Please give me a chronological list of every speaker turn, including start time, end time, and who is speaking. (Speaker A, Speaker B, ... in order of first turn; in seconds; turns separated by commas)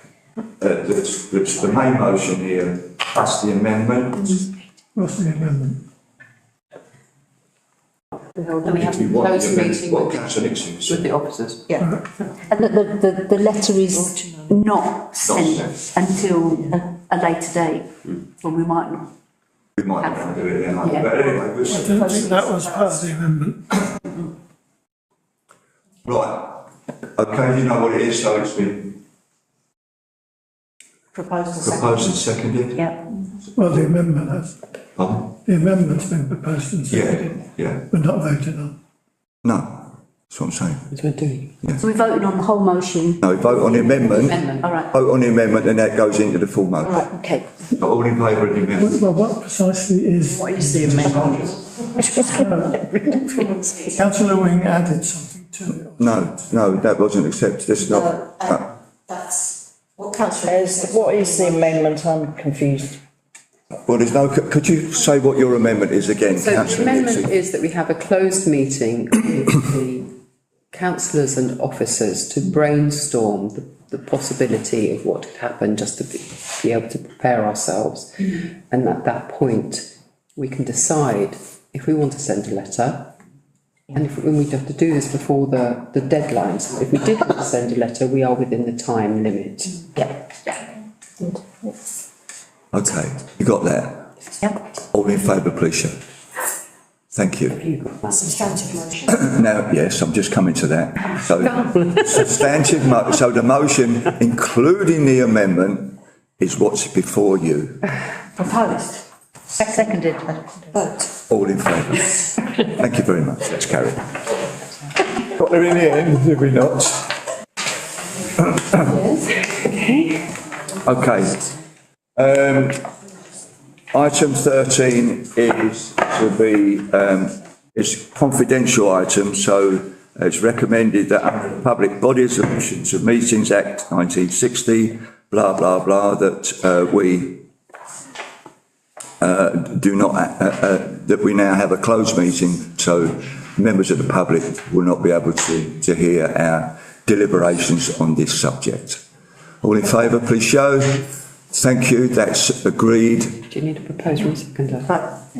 Speaker A: 0.6-4.4, Speaker B: 5.0-5.8, Speaker C: 8.3-11.7, Speaker A: 8.7-11.1, Speaker D: 12.4-19.1, Speaker A: 15.2-15.8, Speaker A: 19.8-21.9, Speaker D: 20.0-21.0, Speaker E: 21.4-23.0, Speaker B: 21.7-23.8, Speaker A: 26.1-29.0, Speaker E: 31.1-32.2, Speaker A: 31.6-32.9, Speaker B: 33.5-34.6, Speaker A: 35.0-35.3, Speaker B: 35.5-38.7, Speaker A: 36.9-37.9, Speaker A: 39.4-40.9, Speaker C: 40.9-41.5, Speaker D: 41.8-44.9, Speaker A: 43.2-47.0, Speaker C: 44.0-44.8, Speaker D: 46.9-47.5, Speaker A: 47.8-49.0, Speaker B: 48.8-51.4, Speaker D: 50.6-51.0, Speaker F: 51.0-51.5, Speaker B: 52.0-56.5, Speaker E: 53.4-53.9, Speaker A: 56.0-58.7, Speaker E: 57.8-61.9, Speaker F: 60.5-63.0, Speaker A: 63.9-67.3, Speaker C: 66.3-70.1, Speaker C: 70.7-83.2, Speaker C: 83.9-89.9, Speaker A: 92.7-94.1, Speaker A: 94.9-95.9, Speaker A: 97.1-97.6, Speaker C: 97.5-98.5, Speaker E: 98.1-99.3, Speaker A: 99.1-107.8, Speaker E: 108.4-109.0, Speaker E: 109.6-110.9, Speaker D: 109.6-110.1, Speaker A: 111.3-112.1, Speaker A: 112.7-114.0, Speaker A: 115.3-117.1, Speaker C: 118.8-120.2, Speaker A: 120.8-121.5, Speaker A: 122.2-122.8, Speaker A: 123.9-137.4, Speaker A: 139.2-149.0, Speaker A: 149.6-153.4, Speaker C: 153.5-154.9, Speaker E: 154.9-155.1